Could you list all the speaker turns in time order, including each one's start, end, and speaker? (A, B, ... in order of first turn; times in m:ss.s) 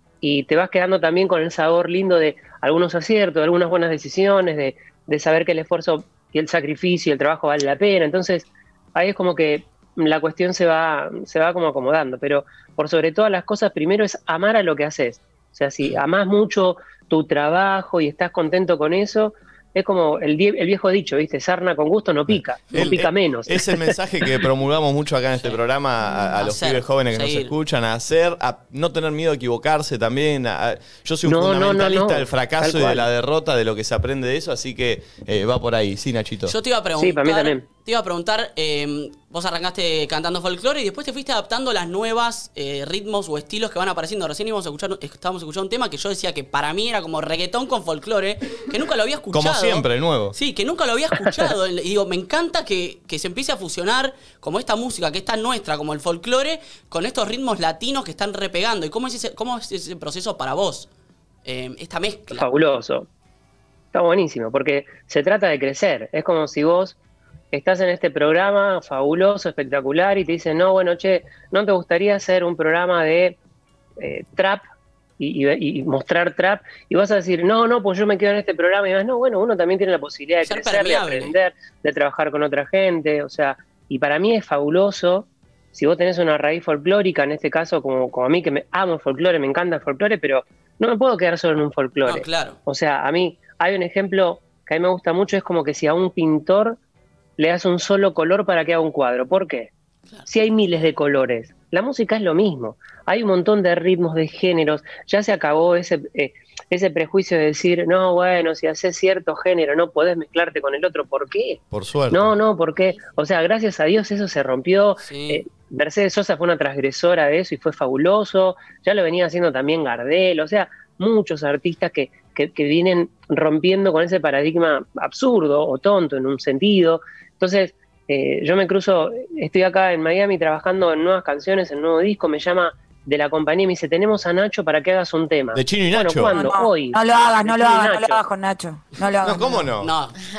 0:00.2-0:23.9 A
0:22.3-0:36.5 B
0:26.3-0:27.5 C
0:31.2-0:33.0 A
0:36.5-1:00.9 C
0:37.0-0:37.6 A
0:49.3-0:50.3 B
1:01.4-1:02.4 C
1:02.3-1:03.1 A
1:03.9-1:07.0 A
1:07.5-1:13.4 A
1:14.0-1:14.6 A
1:15.2-1:36.8 A
1:20.4-1:21.3 C
1:32.0-1:32.6 C
1:37.4-1:39.7 A
1:40.2-2:18.2 A
1:51.7-1:52.3 B
1:55.0-1:55.4 C
2:15.5-2:16.4 B
2:16.3-2:19.6 D
2:19.2-2:19.9 B
2:19.8-2:20.2 C